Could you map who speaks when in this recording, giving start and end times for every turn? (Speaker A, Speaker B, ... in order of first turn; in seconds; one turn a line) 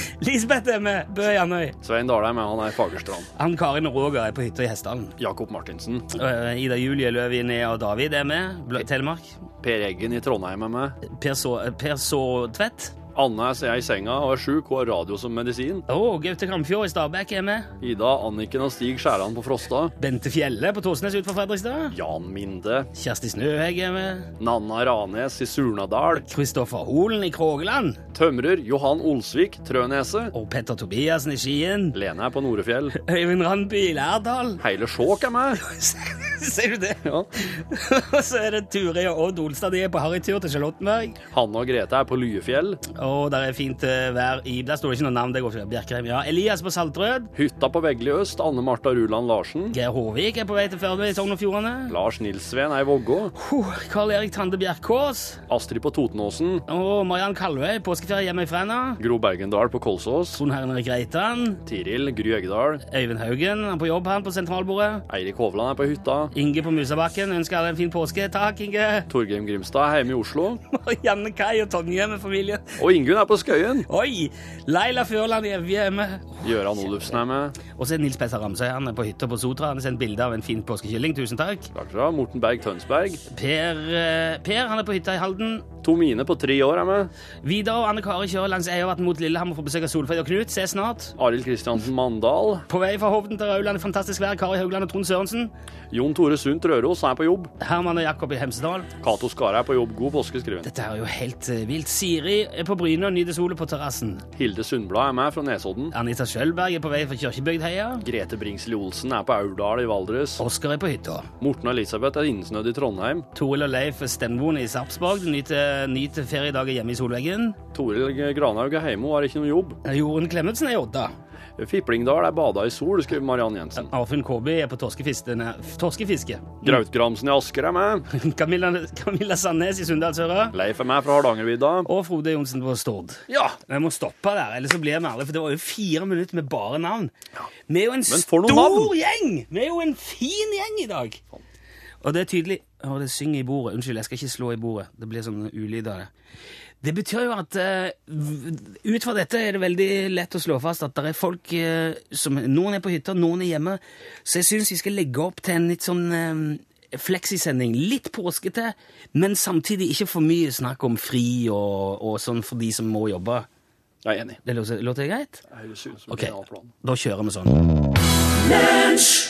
Speaker A: 0.2-1.8
Speaker B: 1.8-3.3
Speaker A: 3.4-5.2
Speaker B: 5.2-6.1
Speaker A: 6.1-9.4
Speaker B: 9.6-11.0
Speaker A: 11.0-13.0
Speaker B: 13.2-15.9
Speaker A: 15.9-17.7
Speaker B: 17.8-19.9
Speaker A: 20.0-22.0
Speaker B: 21.9-22.9
Speaker A: 22.9-24.3
Speaker B: 24.4-26.2
Speaker A: 26.1-28.0
Speaker B: 28.1-30.3
Speaker A: 30.3-32.0
Speaker B: 31.9-33.0
Speaker A: 33.0-34.6
Speaker B: 34.6-35.6
Speaker A: 35.6-41.2
Speaker B: 37.0-37.3
Speaker B: 41.3-42.8
Speaker A: 43.0-47.3
Speaker B: 47.4-49.8
Speaker A: 49.7-52.0
Speaker B: 51.9-53.3
Speaker A: 53.3-55.4
Speaker B: 55.5-56.6
Speaker A: 56.7-59.0
Speaker B: 59.0-60.4
Speaker A: 60.3-61.6
Speaker B: 61.7-62.8
Speaker A: 62.9-65.0
Speaker B: 65.1-66.3
Speaker A: 66.3-69.1
Speaker B: 69.1-70.6
Speaker A: 70.7-72.8
Speaker B: 72.8-73.9
Speaker A: 73.9-76.5
Speaker B: 76.4-77.6
Speaker A: 77.7-81.7
Speaker B: 81.7-83.2
Speaker A: 83.3-85.7
Speaker B: 85.8-87.1
Speaker A: 87.4-91.2
Speaker B: 91.2-92.7
Speaker A: 92.7-95.5
Speaker B: 95.9-97.5
Speaker A: 97.6-98.9
Speaker B: 99.0-100.7
Speaker A: 100.6-104.2
Speaker B: 104.4-105.9
Speaker A: 105.9-108.1
Speaker B: 108.0-110.4
Speaker A: 110.4-111.3
Speaker B: 111.4-113.3
Speaker A: 113.3-117.6
Speaker B: 117.7-119.8
Speaker A: 119.8-121.2
Speaker B: 121.6-123.9
Speaker A: 123.8-126.8
Speaker B: 126.6-128.1
Speaker A: 128.1-130.6
Speaker B: 130.5-131.9
Speaker A: 131.8-137.2
Speaker B: 133.3-133.6
Speaker A: 137.7-141.2
Speaker B: 138.1-138.9
Speaker A: 142.0-146.1
Speaker A: 146.8-163.5
Speaker B: 164.0-164.4
Speaker A: 164.4-165.4
Speaker B: 165.5-166.7
Speaker A: 166.1-167.6